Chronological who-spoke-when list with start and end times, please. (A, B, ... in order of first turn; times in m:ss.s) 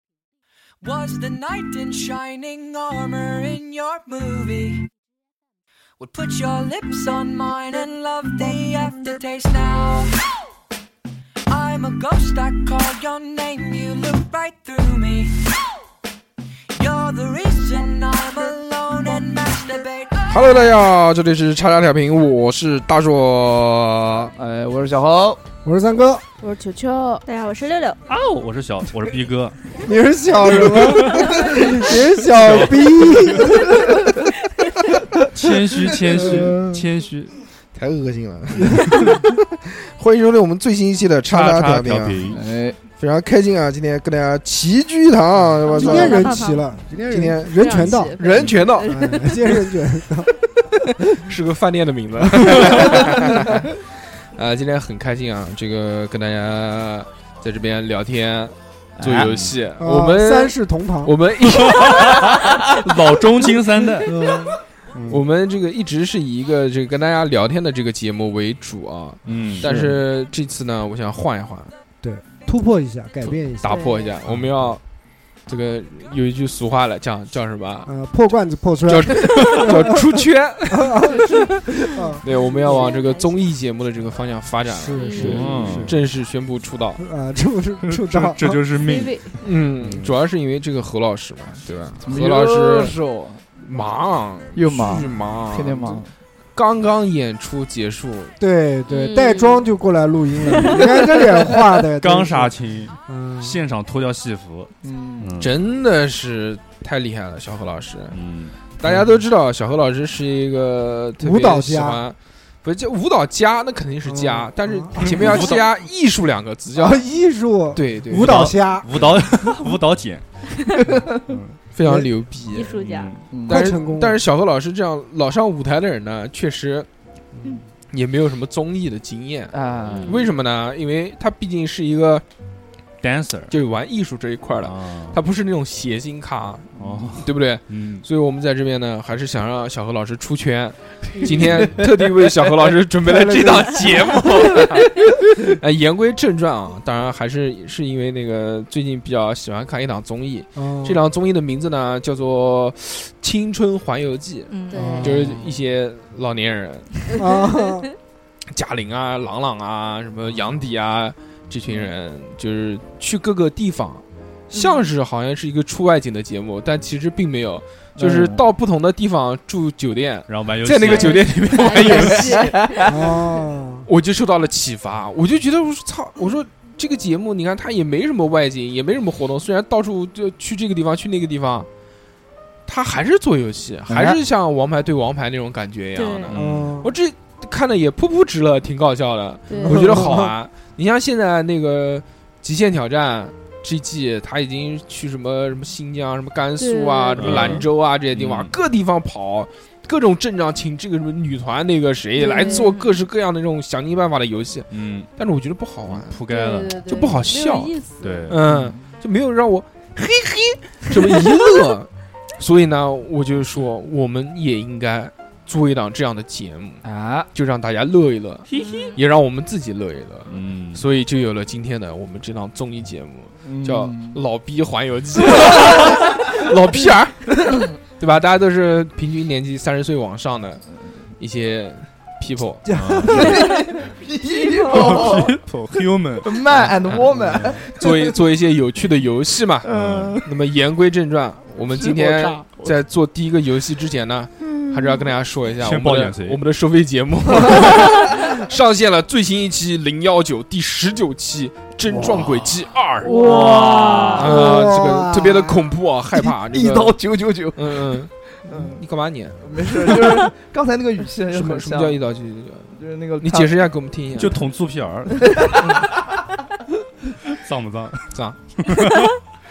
0:00.8-0:04.9 A
0:06.0-0:10.2 A
0:11.5-0:15.4 A
0:16.7-0:20.4 A
0:20.3-0:24.3 B
0:24.4-0:25.4 C
0:25.6-0:26.2 D
0:26.4-0:27.2 E
0:27.2-0:28.0 F
0:28.1-0:29.7 G
0:29.8-0:34.0 D
0:30.5-0:31.4 G
0:32.4-0:33.4 G
0:35.3-0:37.3 G
0:36.1-0:36.8 D
0:37.8-0:39.1 B
0:39.9-0:42.2 B
0:41.3-0:42.4 G
0:42.3-0:42.8 C
0:43.0-0:46.2 B
0:45.6-0:46.4 E
0:45.7-0:48.2 D
0:46.0-0:46.6 F
0:47.1-0:48.9 B
0:47.4-0:49.4 E
0:48.4-0:48.7 G
0:48.8-0:50.4 D
0:51.2-0:53.8 B
0:52.4-0:53.0 D
0:54.3-1:02.2 B
0:59.0-0:59.5 G
0:59.8-1:01.1 D
1:01.4-1:04.2 G
1:04.0-1:05.2 D
1:05.1-1:11.7 B
1:09.2-1:09.7 G
1:09.6-1:10.0 D
1:12.0-1:13.9 D
1:13.2-1:14.8 B
1:15.4-1:17.9 B
1:17.8-1:20.2 D
1:18.8-1:21.5 B
1:20.7-1:22.2 D
1:22.2-1:27.0 B
1:22.6-1:23.4 E
1:24.7-1:26.0 D
1:25.0-1:25.6 E
1:25.2-1:26.0 G
1:27.0-1:28.6 D
1:27.8-1:30.1 G
1:28.7-1:29.3 E
1:29.4-1:32.9 B
1:32.0-1:33.4 C
1:33.6-1:36.0 B
1:34.5-1:36.1 C
1:36.5-1:38.3 B
1:38.4-1:42.5 D
1:38.9-1:39.7 E
1:42.0-1:45.5 G
1:43.1-1:43.6 D
1:44.8-1:45.3 C
1:45.4-1:48.2 B
1:48.1-1:49.0 G
1:48.8-1:57.0 B
1:51.2-1:52.0 D
1:54.0-1:55.2 D
1:55.0-1:55.7 G
1:56.7-1:59.0 D
1:57.8-1:58.6 B
1:58.1-2:00.2 G
2:00.8-2:01.2 C
2:01.3-2:01.6 G
2:01.7-2:02.8 B
2:01.8-2:02.1 D
2:02.5-2:03.1 F
2:02.7-2:03.2 G
2:03.3-2:03.8 C
2:03.5-2:04.2 D
2:03.5-2:06.9 B
2:07.9-2:12.2 B
2:09.5-2:10.2 C
2:09.9-2:10.3 E
2:13.0-2:13.5 G
2:13.5-2:36.9 B
2:14.6-2:15.2 G
2:16.8-2:18.0 G
2:21.2-2:21.9 C
2:23.0-2:24.4 D
2:30.6-2:31.0 D
2:34.5-2:34.8 F
2:34.7-2:35.1 E
2:34.7-2:35.2 D
2:37.1-2:37.9 D
2:38.5-2:52.5 B
2:44.5-2:44.8 F
2:48.0-2:48.4 C
2:50.3-2:52.1 G
2:50.8-2:52.8 E
2:52.4-2:52.8 C
2:52.8-2:53.9 D
2:53.8-3:01.7 B
3:02.7-3:26.2 B
3:03.9-3:04.2 C
3:06.0-3:06.3 F
3:06.3-3:06.8 G
3:06.3-3:06.9 D
3:09.5-3:10.2 E
3:09.6-3:10.3 D
3:16.6-3:17.6 E
3:17.2-3:18.5 G
3:22.2-3:22.9 E
3:24.7-3:25.1 G
3:25.9-3:26.8 G
3:26.3-3:28.3 E
3:26.9-3:27.7 B
3:28.0-3:28.4 G
3:28.3-3:36.8 B
3:28.4-3:28.8 C
3:36.8-3:37.3 C
3:37.3-3:50.6 B
3:38.5-3:38.8 G
3:38.6-3:38.9 E
3:40.3-3:40.8 G
3:43.4-3:44.2 C
3:51.2-3:52.6 B
3:52.7-3:53.2 D
3:52.7-3:53.4 G
3:53.1-3:55.4 C
3:54.3-3:55.2 F
3:54.7-3:57.6 G
3:56.2-3:58.1 C
3:57.7-3:59.7 B
3:59.6-4:00.3 C
3:59.7-4:00.2 G
4:00.2-4:13.2 B
4:01.6-4:02.8 C
4:05.6-4:06.4 G
4:07.3-4:07.9 C
4:11.9-4:12.4 C
4:13.1-4:14.4 C
4:13.1-4:14.4 G
4:13.2-4:13.8 E
4:14.2-4:15.7 D
4:14.2-4:20.2 B
4:16.5-4:18.8 C
4:19.4-4:22.0 C
4:21.3-4:24.4 B
4:22.7-4:23.5 C
4:24.2-4:25.3 G
4:25.2-4:25.5 C
4:27.3-4:29.1 G
4:28.1-4:28.4 B